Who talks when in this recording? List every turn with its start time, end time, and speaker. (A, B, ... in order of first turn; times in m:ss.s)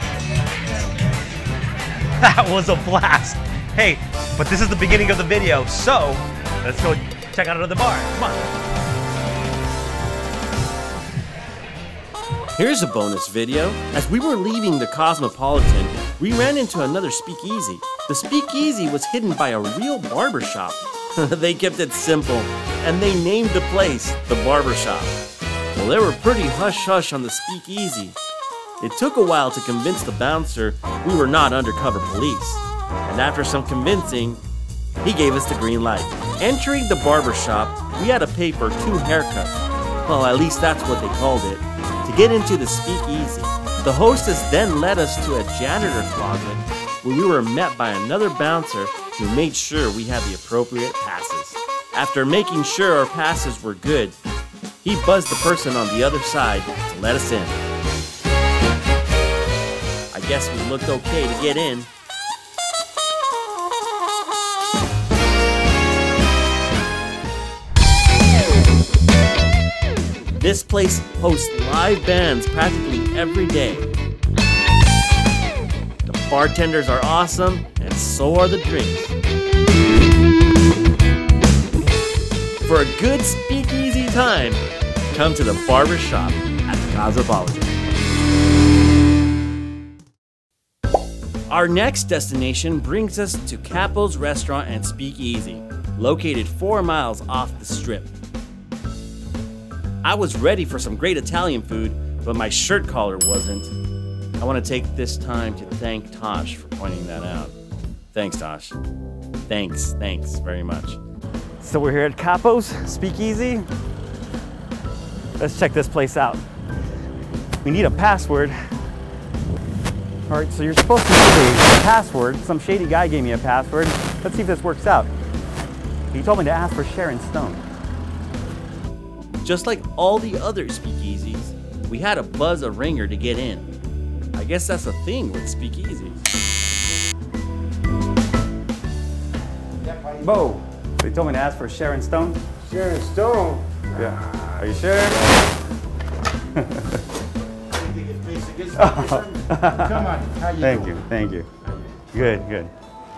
0:02.2-0:08.4 A
0:12.6-0:25.2 B
0:25.7-0:28.2 B
0:28.8-0:34.4 B
0:35.0-0:54.2 B
0:54.8-0:57.6 B
1:00.1-1:01.9 B
1:10.3-1:13.9 B
1:16.0-1:19.1 B
1:22.6-1:27.8 B
1:31.5-1:38.1 B
1:40.0-1:43.7 B
1:44.4-1:47.6 B
1:48.1-1:48.8 B
1:49.5-1:51.0 B
1:51.6-1:53.6 A
1:55.4-1:56.4 A
1:57.6-1:58.6 A
2:00.3-2:05.1 A
2:06.1-2:07.6 A
2:09.4-2:13.7 B
2:14.3-2:16.2 B
2:20.2-2:22.4 A
2:22.6-2:23.9 C
2:23.9-2:25.2 A
2:28.0-2:29.4 C
2:28.7-2:30.0 A
2:29.9-2:30.8 C
2:30.6-2:31.5 A
2:32.1-2:32.7 A